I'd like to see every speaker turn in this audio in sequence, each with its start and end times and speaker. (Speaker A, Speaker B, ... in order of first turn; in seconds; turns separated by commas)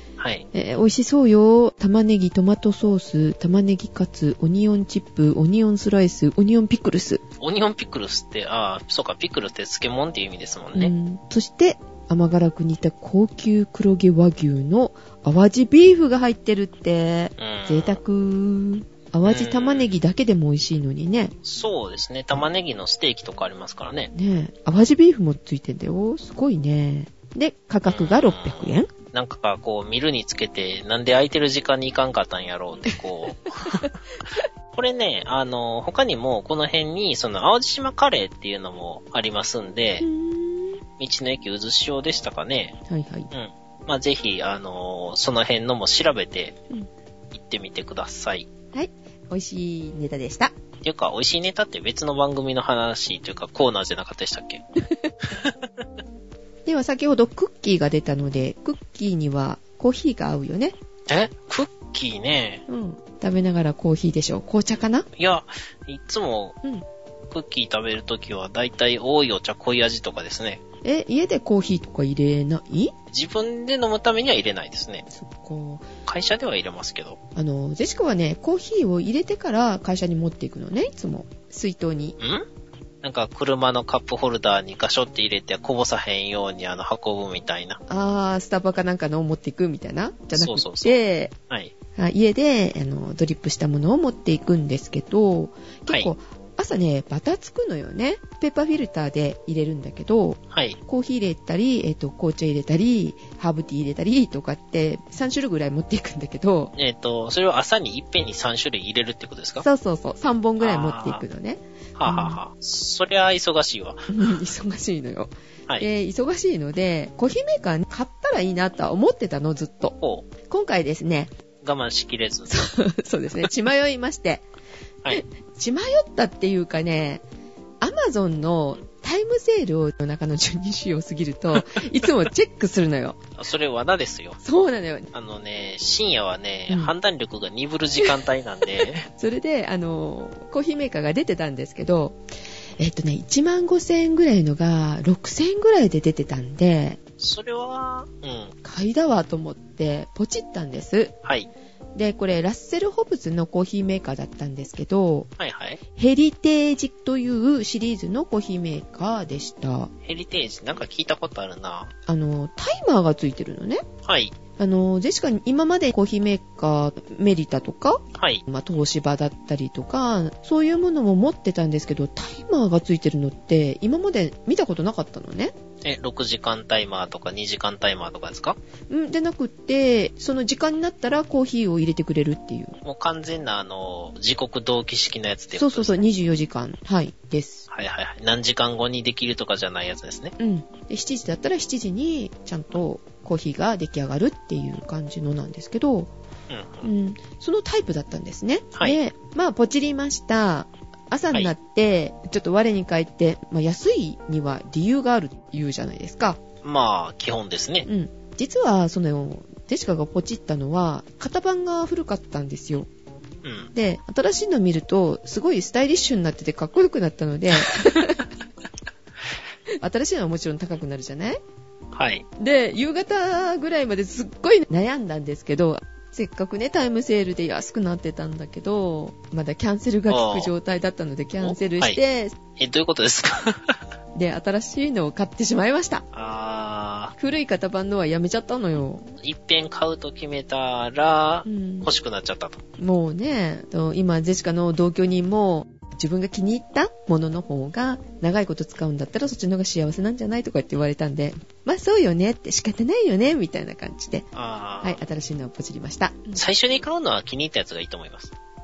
Speaker A: 0.2-0.5, Speaker B: 0.5-7.2, Speaker A: 7.4-10.9, Speaker B: 10.8-21.4, Speaker A: 17.4-18.0, Speaker A: 19.2-19.9, Speaker A: 21.4-24.1, Speaker B: 24.1-28.9, Speaker A: 27.9-33.9, Speaker A: 34.7-40.1, Speaker B: 40.0-40.8, Speaker A: 41.0-42.8, Speaker B: 42.9-43.3, Speaker A: 43.3-46.6, Speaker A: 47.3-48.5, Speaker B: 48.7-50.5, Speaker A: 50.8-54.6, Speaker A: 55.2-55.7, Speaker B: 56.7-60.8, Speaker A: 61.1-62.6, Speaker B: 62.7-65.1, Speaker A: 65.2-66.6, Speaker A: 67.3-70.6, Speaker B: 70.8-72.9, Speaker A: 73.1-75.1, Speaker B: 75.1-75.8, Speaker A: 76.1-77.2, Speaker B: 77.3-82.2, Speaker A: 82.2-82.5, Speaker A: 83.0-87.8, Speaker B: 87.9-91.3, Speaker A: 90.3-91.0, Speaker B: 92.0-106.7, Speaker A: 100.5-100.8, Speaker A: 106.8-109.7, Speaker B: 109.6-112.4, Speaker A: 110.6-111.2, Speaker A: 112.0-114.3, Speaker B: 114.1-120.0, Speaker A: 120.0-120.3, Speaker B: 120.5-121.3, Speaker A: 121.6-122.5, Speaker B: 122.5-124.5, Speaker B: 125.1-127.2, Speaker B: 127.8-133.2, Speaker A: 133.4-134.4, Speaker B: 134.4-135.1, Speaker A: 135.1-139.1, Speaker B: 139.1-142.2, Speaker B: 142.8-147.0, Speaker A: 147.2-148.6, Speaker B: 148.6-151.1, Speaker A: 151.2-151.5, Speaker B: 151.9-155.3, Speaker A: 155.4-155.8, Speaker B: 156.0-159.9, Speaker A: 160.1-161.9, Speaker B: 162.1-163.8, Speaker A: 164.1-164.4, Speaker B: 164.6-175.5, Speaker A: 168.2-168.4, Speaker A: 175.8-178.6, Speaker B: 178.9-182.8, Speaker A: 182.8-186.1, Speaker B: 185.5-187.7, Speaker A: 187.7-190.3, Speaker B: 190.4-196.1, Speaker A: 196.5-196.9, Speaker B: 196.8-206.4, Speaker A: 206.6-207.9, Speaker B: 207.9-212.9, Speaker A: 213.4-213.7, Speaker B: 213.7-218.2, Speaker B: 219.8-221.4, Speaker A: 221.9-222.2, Speaker B: 222.4-232.4, Speaker A: 230.1-230.5, Speaker A: 231.4-232.0, Speaker A: 232.6-233.8, Speaker B: 234.2-236.1, Speaker A: 236.1-237.2, Speaker B: 237.2-239.1, Speaker A: 239.2-242.6, Speaker B: 241.5-241.9, Speaker B: 242.8-254.3, Speaker A: 254.3-255.0, Speaker B: 254.8-256.4, Speaker A: 256.4-258.3